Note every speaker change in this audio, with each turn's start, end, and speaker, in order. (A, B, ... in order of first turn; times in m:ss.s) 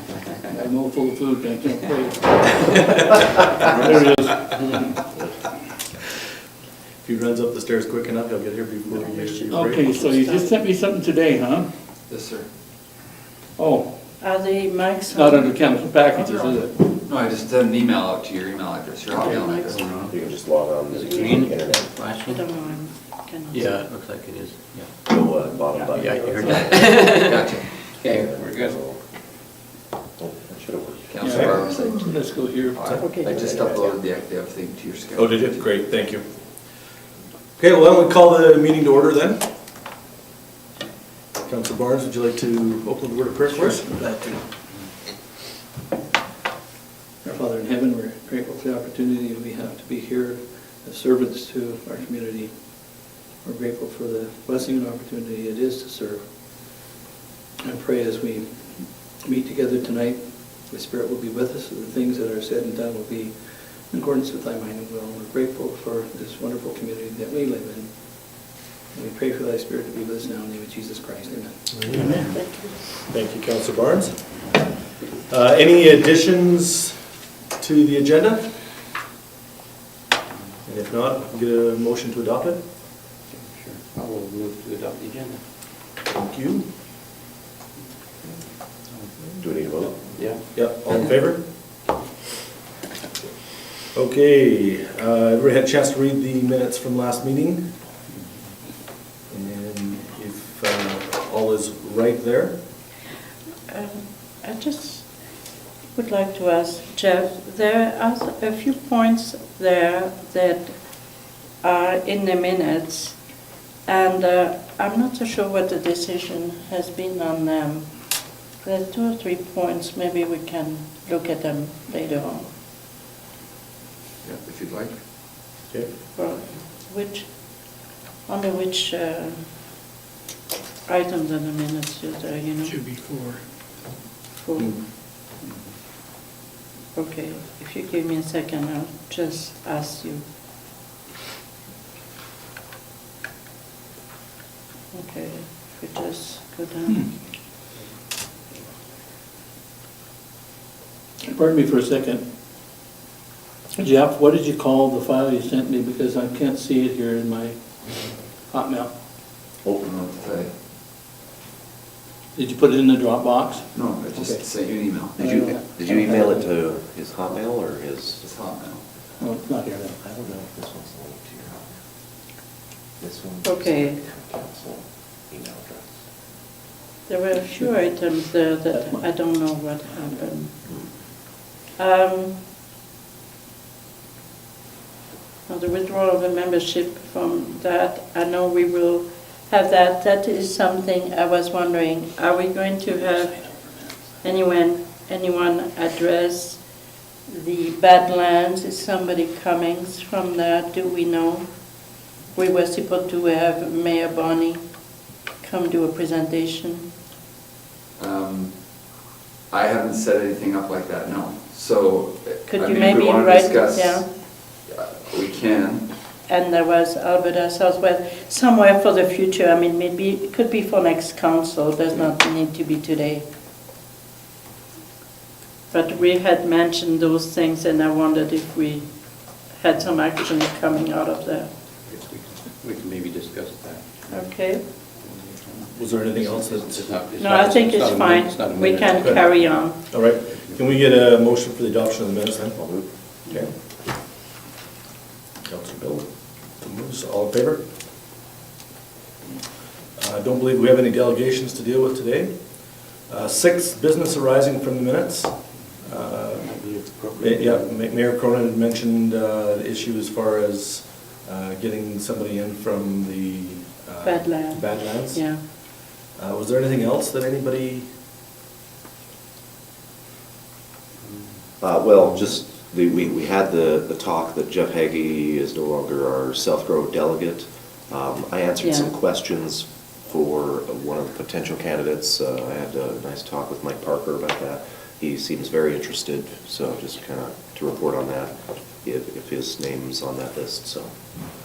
0:00.4-0:05.0 A
0:03.7-0:04.4 B
0:07.0-0:09.9 B
0:08.9-0:10.6 C
0:09.5-0:11.7 A
0:12.1-0:12.5 D
0:13.6-0:14.0 A
0:14.2-0:15.6 C
0:15.1-0:16.7 A
0:16.2-0:19.8 D
0:19.2-0:19.8 C
0:19.6-0:20.2 E
0:20.1-0:21.9 F
0:20.9-0:22.4 E
0:21.1-0:21.5 C
0:22.2-0:23.8 C
0:23.5-0:24.9 E
0:25.0-0:26.6 F
0:25.7-0:28.8 E
0:26.2-0:26.7 A
0:26.5-0:27.7 D
0:28.0-0:29.0 F
0:30.2-0:31.3 F
0:31.1-0:35.6 D
0:31.2-0:32.9 A
0:31.2-0:31.9 B
0:33.0-0:33.4 C
0:33.2-0:34.0 F
0:35.2-0:36.2 B
0:37.6-0:39.5 B
0:41.4-0:43.9 B
0:43.5-0:44.4 A
0:47.2-0:56.8 A
0:57.6-1:12.3 A
1:11.7-1:12.2 B
1:12.3-1:12.9 C
1:13.0-1:14.2 B
1:15.3-1:17.0 B
1:17.6-1:18.5 B
1:20.7-1:22.6 B
1:23.4-1:25.4 E
1:26.1-1:26.7 B
1:29.4-1:30.1 F
1:30.2-1:30.6 E
1:30.5-1:31.5 B
1:33.9-1:37.7 B
1:39.3-1:42.5 B
1:43.7-1:45.1 C
1:45.9-1:50.8 C
1:51.6-1:53.2 C
1:53.8-2:02.5 C
2:04.2-2:04.9 D
2:06.1-2:09.5 C
2:10.8-2:12.8 C
2:12.9-2:13.3 A
2:14.3-2:14.8 C
2:16.9-2:20.2 C
2:24.9-2:27.1 C
2:31.2-2:32.2 A
2:33.7-2:39.0 A
2:39.8-2:40.5 D
2:42.3-2:44.4 A
2:43.7-2:45.2 D
2:45.2-2:46.5 A
2:45.2-2:48.2 F
2:48.2-2:48.8 D
2:49.2-2:50.0 A
2:50.0-2:51.8 F
2:53.0-2:56.0 F
2:53.4-2:54.0 C
2:57.1-3:00.6 C
2:58.7-2:59.0 A
3:01.8-3:02.4 C
3:05.5-3:16.6 C
3:17.3-3:21.8 C
3:22.3-3:24.7 C
3:25.4-3:26.9 C
3:28.0-3:28.6 D
3:29.5-3:35.9 D
3:32.5-3:34.0 C
3:36.3-3:43.2 C
3:45.7-3:51.5 C
3:51.9-3:59.6 E
3:54.1-3:54.6 C
3:55.7-3:56.9 B
3:57.2-3:59.8 C
3:59.0-4:02.6 B
4:02.6-4:02.9 F
4:05.4-4:07.6 B
4:10.0-4:25.5 B
4:16.3-4:17.7 E
4:24.0-4:25.4 C
4:26.1-4:27.9 B
4:31.6-4:50.9 F
4:38.6-4:38.9 C